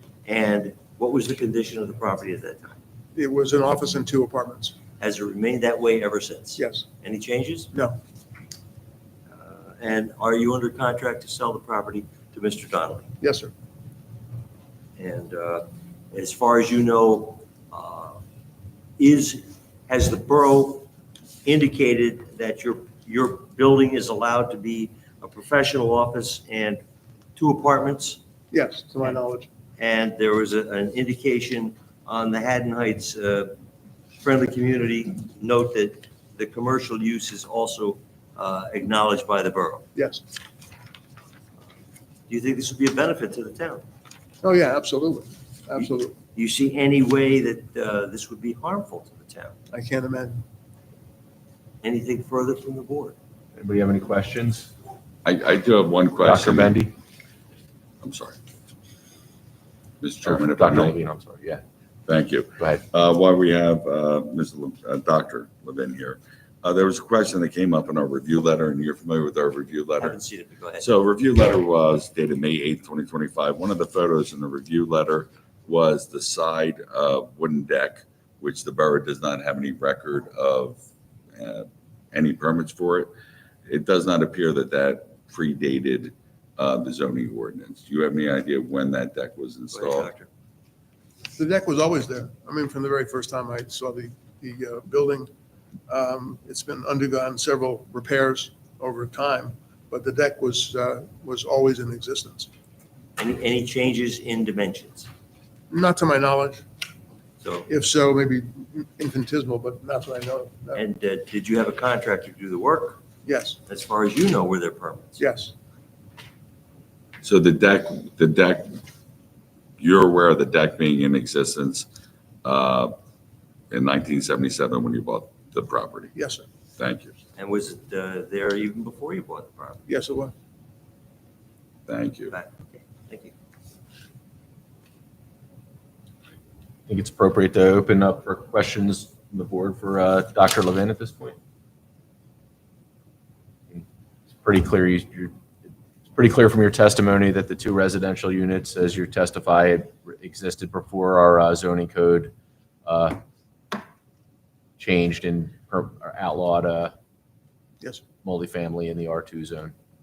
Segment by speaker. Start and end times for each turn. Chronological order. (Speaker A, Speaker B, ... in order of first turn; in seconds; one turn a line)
Speaker A: 0.2-2.8
Speaker B: 3.1-4.8
Speaker A: 5.0-7.7
Speaker B: 6.6-6.8
Speaker A: 9.3-13.1
Speaker B: 13.2-13.5
Speaker A: 15.0-18.2
Speaker A: 19.0-20.9
Speaker A: 21.4-26.8
Speaker A: 27.4-28.2
Speaker B: 28.5-29.5
Speaker A: 29.8-33.5
Speaker A: 34.2-39.9
Speaker B: 39.9-40.2
Speaker A: 42.3-43.8
Speaker B: 44.4-46.1
Speaker A: 45.8-49.5
Speaker B: 49.7-50.4
Speaker A: 51.8-53.1
Speaker C: 53.5-54.7
Speaker D: 55.2-56.8
Speaker C: 56.2-56.9
Speaker D: 58.0-58.4
Speaker D: 60.0-61.0
Speaker C: 60.2-61.6
Speaker D: 62.1-70.2
Speaker A: 70.0-70.9
Speaker D: 70.8-80.8
Speaker D: 81.3-83.1
Speaker D: 83.7-90.1
Speaker A: 89.7-90.3
Speaker B: 91.4-95.3
Speaker B: 95.9-102.5
Speaker A: 103.2-105.1
Speaker B: 105.7-106.6
Speaker A: 107.4-107.7
Speaker B: 107.7-110.8
Speaker A: 110.7-113.0
Speaker B: 113.2-113.6
Speaker A: 113.7-115.2
Speaker B: 115.2-115.5
Speaker D: 117.2-118.8
Speaker D: 119.8-121.9
Speaker D: 122.4-122.9
Speaker D: 123.7-126.1
Speaker B: 126.2-126.4
Speaker D: 126.8-127.2
Speaker A: 127.4-129.8
Speaker B: 129.9-130.3
Speaker D: 131.9-132.3
Speaker A: 132.3-133.3
Speaker C: 136.9-141.4
Speaker C: 144.4-145.3
Speaker C: 146.1-152.3
Speaker C: 152.8-153.2
Speaker C: 154.8-156.9
Speaker C: 158.2-159.7